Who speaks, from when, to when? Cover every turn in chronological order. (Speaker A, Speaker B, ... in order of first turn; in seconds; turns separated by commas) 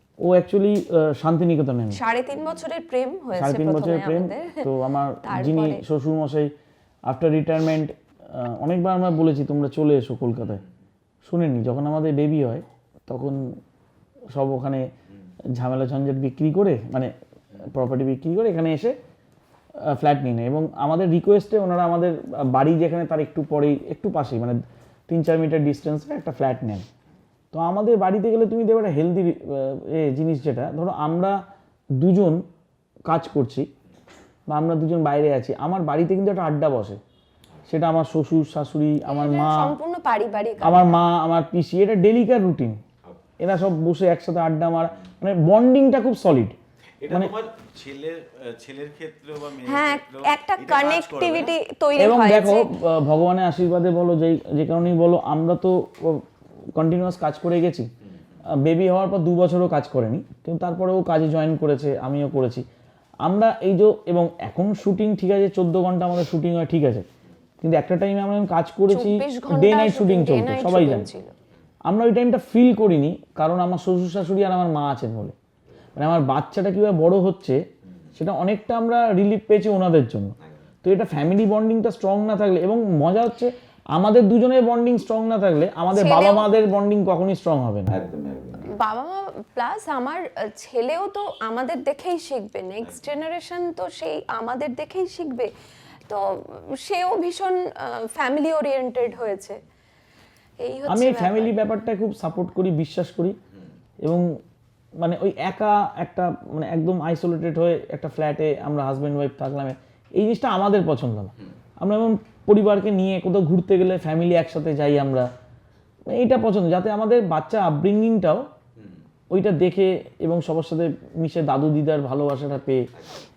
Speaker A: 0.2-2.0, Speaker B: 1.9-4.7, Speaker A: 3.3-6.5, Speaker B: 5.2-5.8, Speaker A: 7.1-10.6, Speaker A: 11.2-13.5, Speaker A: 14.3-14.9, Speaker A: 15.6-17.1, Speaker A: 17.7-19.0, Speaker A: 19.9-26.9, Speaker A: 27.5-31.4, Speaker A: 32.0-32.4, Speaker A: 33.1-33.7, Speaker A: 34.5-37.0, Speaker A: 37.7-39.7, Speaker B: 39.1-41.0, Speaker A: 40.6-42.8, Speaker A: 43.4-46.6, Speaker C: 47.0-51.6, Speaker B: 49.6-52.7, Speaker A: 52.0-56.2, Speaker A: 56.8-57.9, Speaker A: 58.5-62.6, Speaker A: 63.2-67.1, Speaker A: 67.6-71.1, Speaker B: 68.9-71.3, Speaker A: 71.9-75.3, Speaker A: 76.0-77.6, Speaker A: 78.2-88.0, Speaker B: 85.9-86.5, Speaker C: 87.9-88.7, Speaker B: 88.7-95.5, Speaker B: 96.1-99.6, Speaker B: 100.6-101.7, Speaker A: 100.9-103.4, Speaker A: 104.0-104.3, Speaker A: 105.0-115.3, Speaker A: 116.1-118.5, Speaker A: 119.3-122.9